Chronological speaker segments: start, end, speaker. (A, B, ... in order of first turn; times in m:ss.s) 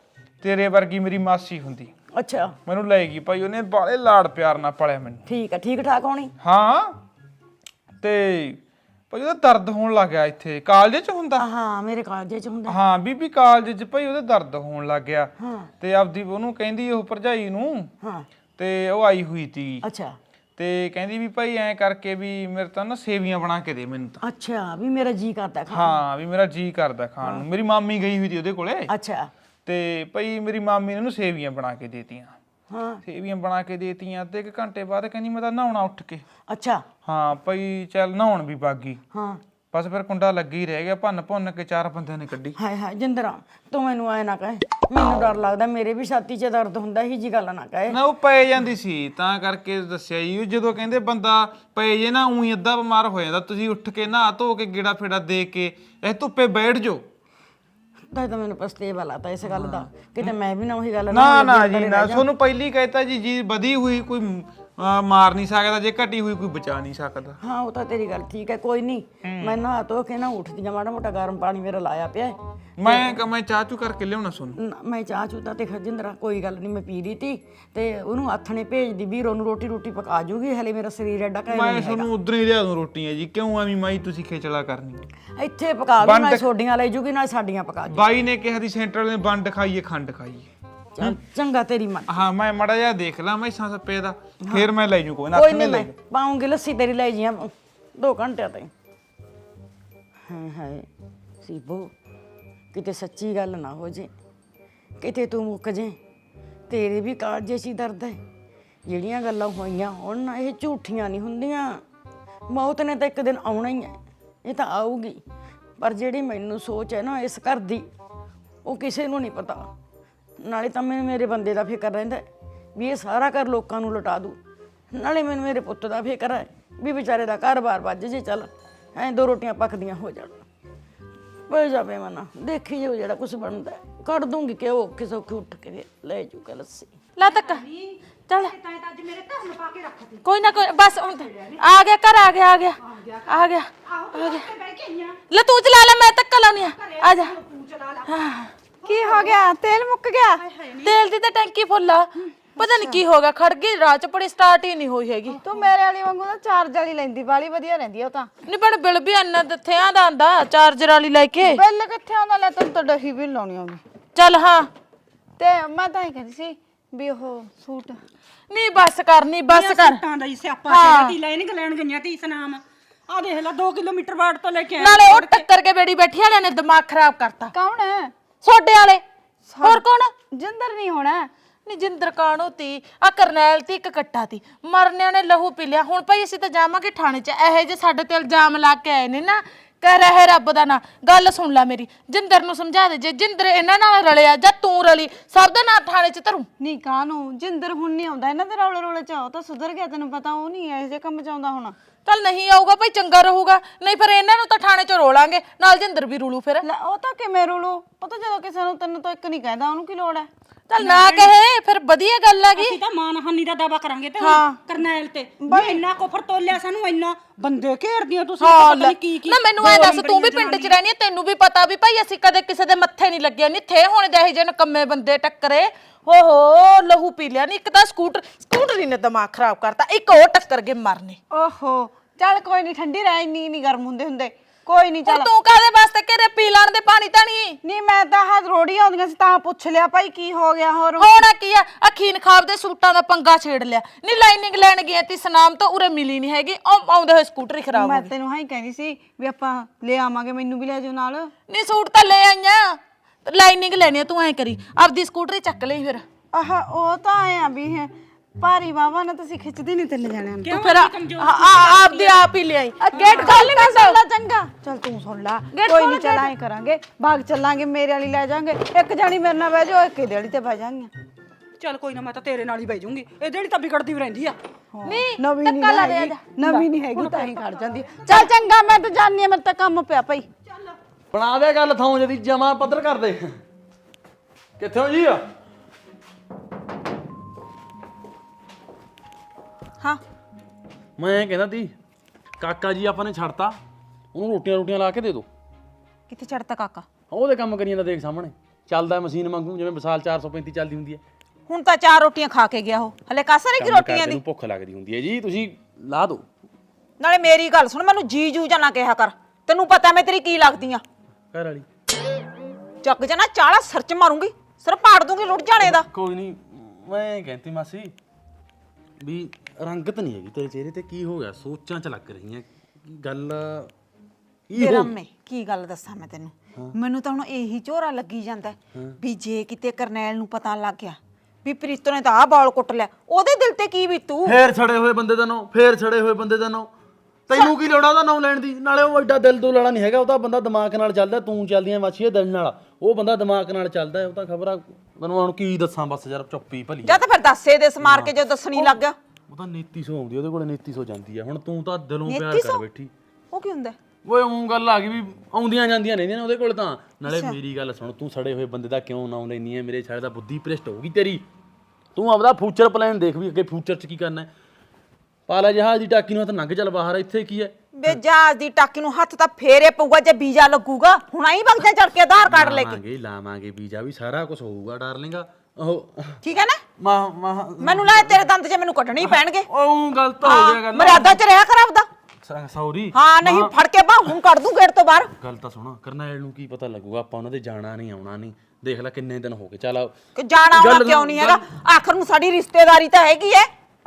0:00.4-0:01.9 A
0:02.2-0:02.6 B
0:02.7-0:05.2 A
0:05.3-0:06.3 B
0:06.4-0:07.0 A
0:08.0-0:08.6 A
0:09.1-0:11.4 A
0:11.4-0:12.8 B
0:12.7-0:15.3 A
0:15.4-0:15.7 B
0:15.8-0:17.9 A
0:18.0-0:18.3 B
0:18.6-0:19.8 A
0:19.8-0:20.2 B
0:20.6-0:24.2 A
0:24.2-0:26.0 B
0:25.7-0:28.9 A
0:28.9-0:29.3 B
0:29.7-0:32.4 A
0:32.7-0:33.0 B
0:33.1-0:36.2 A
0:36.5-0:36.8 B
0:37.1-0:39.0 A
0:39.1-0:39.4 B
0:39.7-0:42.6 A
0:42.6-0:48.0 B
0:47.9-0:57.0 A
0:58.1-1:02.3 B
0:59.6-1:00.3 A
1:01.1-1:07.4 A
1:07.4-1:13.2 B
1:09.2-1:09.6 A
1:12.8-1:14.6 A
1:14.6-1:22.1 B
1:21.5-1:25.0 A
1:25.4-1:28.1 B
1:26.0-1:26.5 A
1:27.9-1:30.5 A
1:31.0-1:32.2 B
1:32.1-1:35.9 A
1:35.3-1:38.7 B
1:40.3-1:40.9 B
1:41.4-1:41.9 B
1:42.7-1:44.1 B
1:45.0-1:46.0 B
1:46.7-1:48.2 B
1:48.9-1:51.8 B
1:52.5-1:55.2 B
1:55.8-1:57.9 B
1:58.6-1:59.7 B
2:00.4-2:02.2 B
2:02.8-2:04.4 B
2:04.9-2:10.4 B
2:11.5-2:16.9 B
2:17.2-2:17.6 C
2:17.2-2:21.6 D
2:18.3-2:18.5 C
2:20.2-2:24.5 C
2:22.8-2:23.3 D
2:23.9-2:25.2 D
2:25.3-2:27.4 C
2:26.8-2:28.1 D
2:28.1-2:28.5 C
2:28.8-2:29.5 D
2:28.8-2:30.4 E
2:30.4-2:31.0 D
2:30.8-2:35.4 C
2:32.6-2:33.0 E
2:35.3-2:38.3 E
2:38.5-2:41.6 C
2:41.4-2:43.8 E
2:44.2-2:44.7 C
2:45.4-2:48.0 E
2:48.5-2:50.0 C
2:49.5-2:55.1 D
2:50.7-2:51.1 C
2:54.8-2:57.5 C
2:55.0-2:55.4 E
2:57.5-2:58.1 E
2:58.4-2:59.0 C
2:59.5-3:01.3 E
2:59.6-3:00.1 C
3:01.7-3:16.5 C
3:16.6-3:21.8 E
3:22.0-3:26.7 C
3:26.6-3:31.3 E
3:30.7-3:32.8 C
3:32.6-3:40.7 D
3:34.2-3:34.6 C
3:35.4-3:35.8 E
3:38.4-3:51.2 C
3:51.3-3:55.3 E
3:55.0-3:57.6 C
3:57.6-4:01.1 E
4:01.0-4:08.1 C
4:07.7-4:11.3 E
4:11.5-4:16.0 C
4:16.3-4:20.6 E
4:20.4-4:22.2 D
4:20.5-4:24.0 C
4:22.9-4:30.9 E
4:25.5-4:26.3 C
4:31.6-4:34.4 D
4:34.8-4:40.3 E
4:34.8-4:37.5 C
4:41.1-4:43.4 F
4:44.6-4:45.2 F
4:51.0-4:51.7 F
4:52.4-4:53.6 F
4:54.1-4:55.3 F
4:56.1-4:56.9 G
4:57.1-5:01.0 F
5:01.5-5:04.2 G
5:03.6-5:06.2 F
5:07.0-5:10.8 G
5:11.3-5:11.7 F
5:12.8-5:15.9 G
5:15.6-5:17.9 F
5:19.0-5:23.7 F
5:24.5-5:24.9 F
5:24.6-5:34.4 G
5:34.2-5:36.7 F
5:37.3-5:47.0 F
5:46.8-5:49.0 G
5:47.8-5:48.8 F
5:49.3-5:52.9 F
5:52.1-5:52.6 G
5:53.3-5:53.8 G
5:54.0-6:01.2 F
5:57.0-5:57.4 G
6:02.0-6:04.3 F
6:05.3-6:07.9 F
6:07.8-6:12.8 G
6:12.3-6:16.2 F
6:16.2-6:16.6 G
6:16.8-6:18.2 F
6:17.6-6:19.5 G
6:19.0-6:21.2 F
6:20.2-6:21.9 G
6:22.3-6:23.5 F
6:22.9-6:25.1 G
6:25.2-6:29.9 F
6:30.2-6:33.5 G
6:30.5-6:31.5 F